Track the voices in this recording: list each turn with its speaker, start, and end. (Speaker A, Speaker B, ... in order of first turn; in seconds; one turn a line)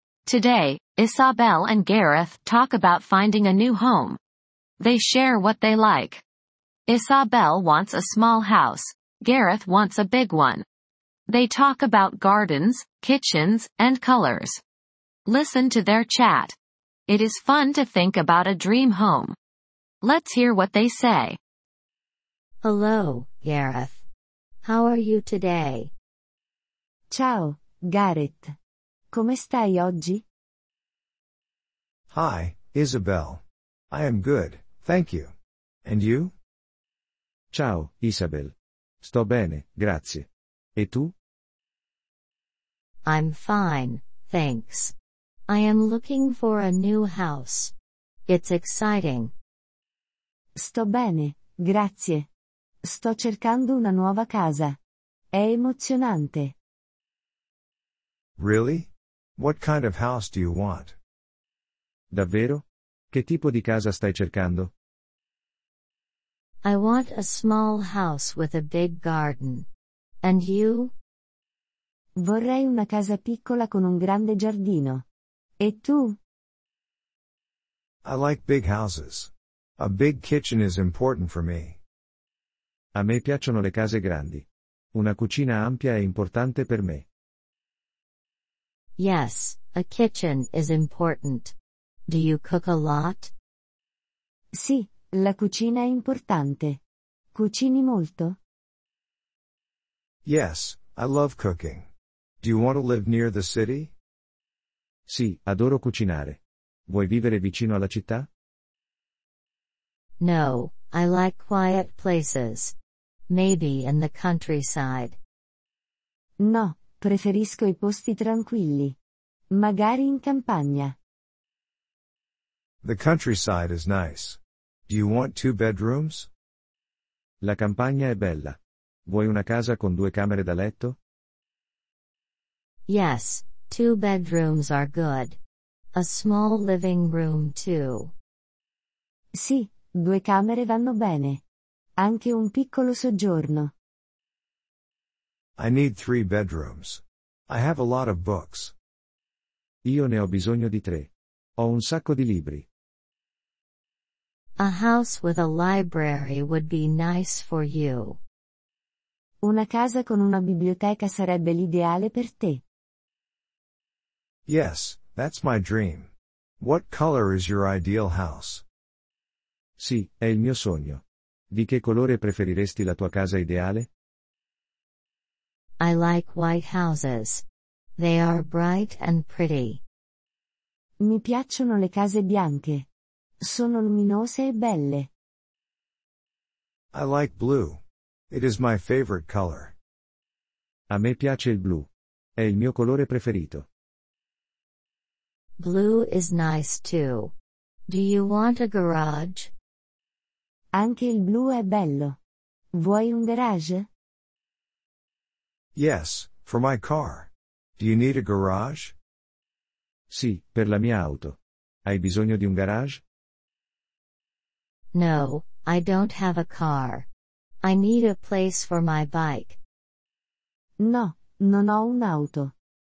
Speaker A: 0.2-4.2
Speaker A: 4.8-6.2
Speaker A: 6.9-10.6
Speaker A: 11.3-14.6
Speaker A: 15.2-16.6
Speaker A: 17.1-19.4
Speaker A: 20.0-21.4
Speaker B: 22.6-24.1
Speaker B: 24.6-25.9
Speaker C: 27.1-28.5
Speaker C: 29.1-30.2
Speaker D: 32.1-35.3
Speaker D: 35.8-36.3
Speaker E: 37.5-41.1
Speaker B: 43.0-44.9
Speaker B: 45.5-47.7
Speaker B: 48.2-49.3
Speaker C: 50.6-52.3
Speaker C: 52.9-54.8
Speaker C: 55.3-56.5
Speaker D: 58.4-61.0
Speaker E: 62.1-64.7
Speaker B: 66.6-69.7
Speaker B: 70.2-70.9
Speaker C: 72.2-75.0
Speaker C: 75.6-76.2
Speaker D: 78.0-81.8
Speaker E: 82.9-87.0
Speaker B: 89.0-91.5
Speaker B: 92.1-93.3
Speaker C: 94.5-96.8
Speaker C: 97.3-98.4
Speaker D: 100.2-101.9
Speaker D: 102.4-103.9
Speaker E: 105.1-108.3
Speaker B: 110.2-112.7
Speaker B: 113.3-115.2
Speaker C: 116.4-119.0
Speaker C: 119.5-120.9
Speaker D: 122.8-126.3
Speaker E: 127.4-130.9
Speaker B: 132.9-135.4
Speaker B: 135.9-138.1
Speaker C: 139.4-141.4
Speaker C: 142.0-143.7
Speaker D: 145.6-148.7
Speaker E: 149.8-152.7
Speaker B: 154.6-158.2
Speaker C: 159.4-162.6
Speaker D: 164.5-168.6
Speaker E: 169.8-173.9
Speaker B: 175.8-177.4
Speaker B: 177.9-179.8
Speaker C: 181.0-182.8
Speaker C: 183.4-185.1
Speaker D: 186.9-189.7
Speaker E: 190.9-193.7
Speaker B: 195.6-197.3
Speaker B: 197.9-199.5
Speaker C: 200.7-202.2
Speaker C: 202.8-203.9
Speaker D: 205.7-208.9
Speaker E: 210.1-213.0
Speaker B: 214.9-217.1
Speaker B: 217.6-219.6
Speaker C: 220.8-222.5